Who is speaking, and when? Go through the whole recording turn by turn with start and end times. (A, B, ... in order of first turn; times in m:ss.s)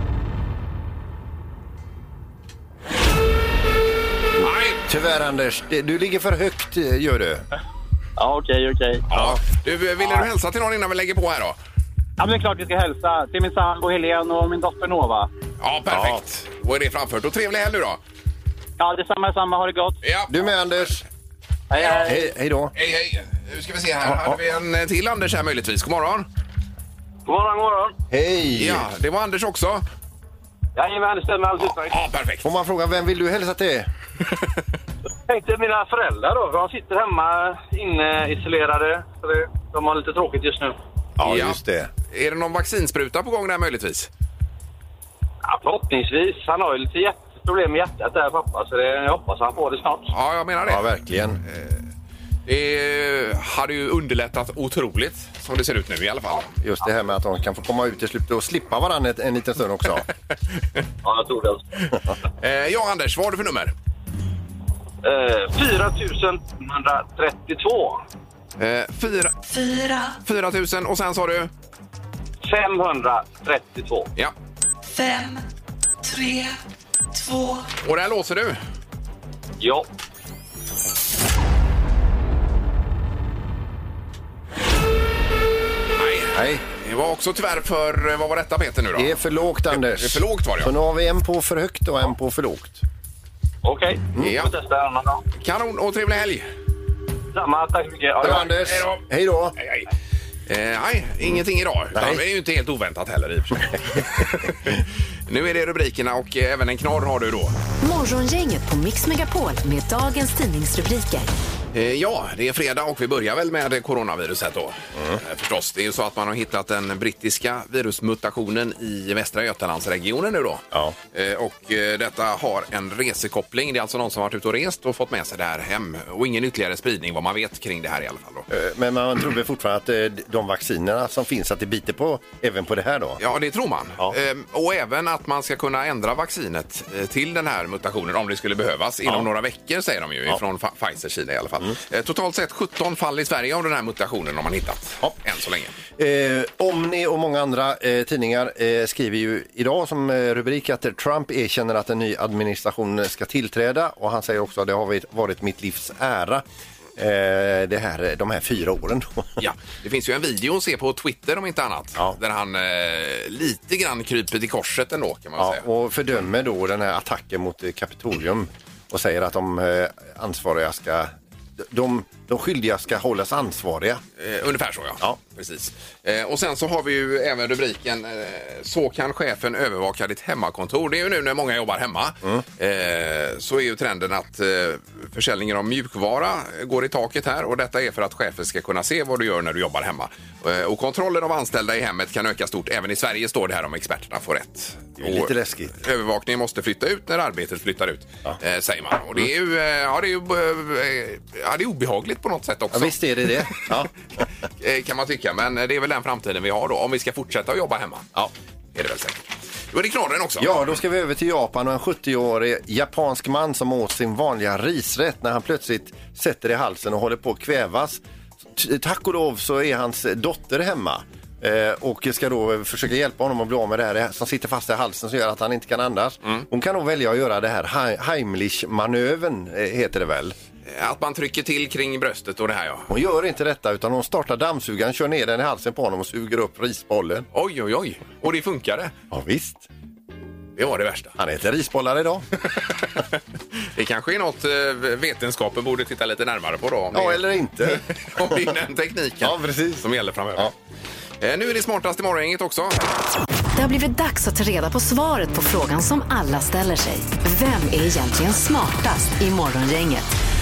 0:04.4-0:04.8 A
0:04.4-0:07.4 B
0:08.2-0:09.1 C
0:09.1-0:11.6 A
0:12.2-0:15.3 C
0:15.6-0:18.0 A
0:15.9-0:16.2 B
0:18.8-0:20.0 C
0:20.0-0:20.3 A
0:20.3-0:21.0 B
0:21.7-0:22.2 C
0:22.0-0:22.7 B
0:22.8-0:26.3 A
0:24.0-0:24.4 B
0:27.2-0:28.0 D
0:28.1-0:28.9 B
0:28.5-0:29.8 A
0:30.8-0:31.9 D
0:31.6-0:32.4 A
0:32.4-0:33.9 B
0:35.2-0:40.8 D
0:41.2-0:41.9 B
0:41.2-0:41.6 A
0:42.1-0:44.1 A
0:45.4-0:50.1 D
0:50.1-0:50.9 A
0:50.6-0:51.4 B
0:51.5-0:51.8 A
0:52.4-0:56.5 A
0:56.6-1:00.1 B
1:01.0-1:01.8 D
1:02.4-1:03.7 A
1:05.0-1:08.0 D
1:08.6-1:09.4 A
1:09.5-1:10.2 E
1:10.2-1:11.5 A
1:12.4-1:14.1 D
1:14.9-1:15.4 E
1:16.0-1:16.6 E
1:17.1-1:17.7 E
1:17.8-1:18.6 A
1:19.6-1:19.9 D
1:26.0-1:29.1 A
1:26.3-1:26.6 B
1:28.9-1:32.8 B
1:29.7-1:30.7 A
1:33.6-1:35.2 D
1:34.1-1:34.4 B
1:34.2-1:34.5 A
1:35.4-1:36.4 A
1:37.3-1:38.5 D
1:38.2-1:39.6 B
1:38.4-1:39.0 A
1:39.6-1:39.9 A
1:40.5-1:47.6 A
1:41.9-1:42.2 B
1:47.8-1:51.3 F
1:51.7-2:08.5 A
1:55.0-1:55.2 B
2:08.5-2:13.2 B
2:13.2-2:25.7 A
2:26.0-2:36.4 B
2:37.0-2:39.4 B
2:39.4-2:45.6 A
2:45.4-2:54.0 B
2:54.2-3:23.6 A
3:15.0-3:15.8 B
3:22.7-3:23.9 B
3:24.6-3:28.1 A
3:28.7-3:30.5 A
3:30.4-3:38.0 B
3:38.5-3:50.4 B
3:50.6-3:52.9 A
3:52.9-3:57.3 B
3:57.3-3:58.9 A
3:59.1-3:59.7 B
4:00.6-4:01.2 A
4:01.2-4:02.2 B
4:03.7-4:10.5 A
4:06.9-4:08.4 B
4:09.2-4:10.5 B
4:11.2-4:12.8 A
4:13.5-4:20.1 F